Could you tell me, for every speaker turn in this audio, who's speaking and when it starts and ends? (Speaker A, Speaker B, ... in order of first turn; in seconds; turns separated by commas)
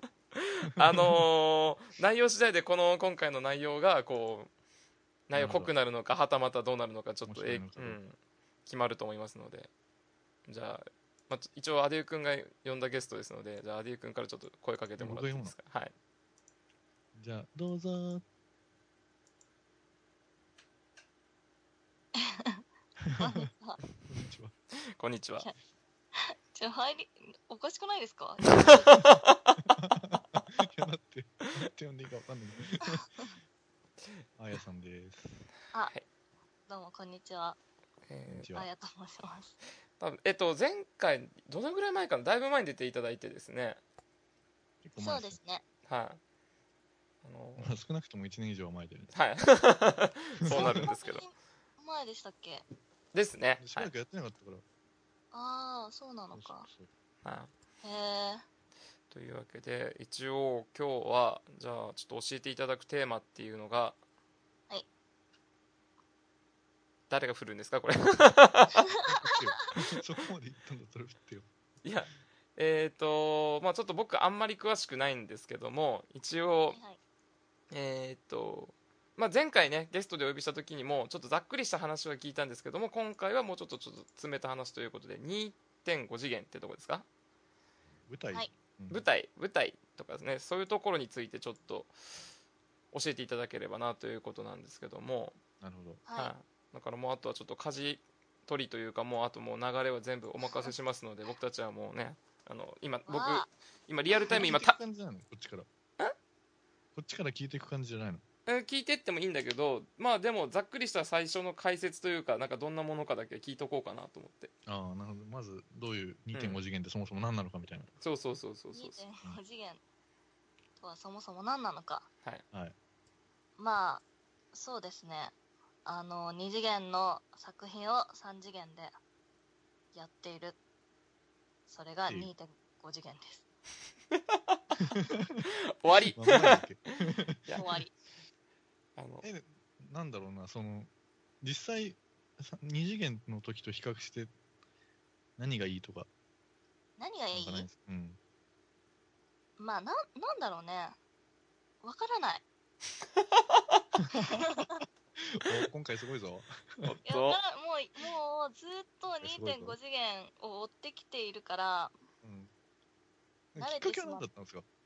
Speaker A: 0.4-4.5, Speaker B: 0.8-1.2, Speaker A: 5.3-9.7, Speaker B: 5.3-5.7, Speaker B: 7.3-8.0, Speaker A: 10.5-15.9, Speaker B: 15.0-15.6, Speaker B: 17.1-18.2, Speaker C: 22.2-22.6, Speaker B: 23.1-23.4, Speaker C: 23.2-23.8, Speaker B: 24.1-24.6, Speaker A: 25.0-25.5, Speaker C: 26.1-28.9, Speaker A: 28.5-29.6, Speaker B: 29.7-33.1, Speaker B: 34.4-35.3, Speaker C: 36.7-37.6, Speaker A: 38.1-38.5, Speaker B: 38.3-38.7, Speaker C: 38.5-39.6, Speaker A: 40.0-43.8, Speaker B: 44.8-45.4, Speaker C: 45.0-45.6, Speaker A: 45.9-46.2, Speaker A: 47.2-47.7, Speaker B: 47.6-49.1, Speaker A: 49.1-51.2, Speaker B: 50.4-50.9, Speaker C: 50.5-52.6, Speaker A: 53.1-53.9, Speaker B: 53.6-54.6, Speaker C: 55.3-56.7, Speaker B: 56.3-56.9, Speaker A: 57.2-57.5, Speaker C: 57.8-58.4, Speaker A: 59.1-64.0, Speaker A: 67.1-68.9, Speaker C: 69.1-69.3, Speaker B: 69.2-71.5, Speaker A: 71.8-76.8, Speaker C: 76.7-77.0, Speaker A: 77.7-87.1, Speaker B: 88.1-89.1, Speaker A: 88.9-91.9, Speaker A: 92.9-95.4, Speaker B: 95.6-96.0, Speaker C: 96.1-96.3, Speaker A: 96.2-104.8, Speaker C: 100.5-100.7, Speaker C: 103.1-103.5, Speaker B: 104.3-105.7, Speaker B: 107.0-108.2, Speaker A: 108.5-114.5, Speaker B: 114.7-117.9, Speaker A: 116.3-116.6, Speaker A: 118.0-119.0, Speaker C: 118.7-119.8, Speaker C: 120.8-122.1, Speaker C: 123.6-125.3, Speaker C: 125.8-128.9, Speaker C: 129.9-130.6, Speaker C: 131.7-133.4, Speaker A: 134.1-134.4, Speaker B: 134.8-135.4, Speaker A: 135.4-136.6, Speaker B: 136.2-137.4, Speaker A: 137.5-137.8, Speaker C: 137.5-137.9, Speaker A: 139.0-139.3, Speaker B: 139.2-140.9, Speaker B: 141.4-144.3, Speaker B: 145.4-146.1, Speaker C: 147.0-147.7, Speaker B: 147.3-148.2, Speaker C: 149.6-151.0, Speaker C: 151.8-152.4, Speaker A: 153.2-153.8, Speaker C: 154.1-154.8, Speaker B: 155.2-157.0, Speaker A: 156.8-157.4, Speaker C: 157.1-161.9, Speaker B: 159.2-159.8, Speaker B: 162.2-162.5, Speaker B: 163.5-164.7, Speaker C: 163.6-164.2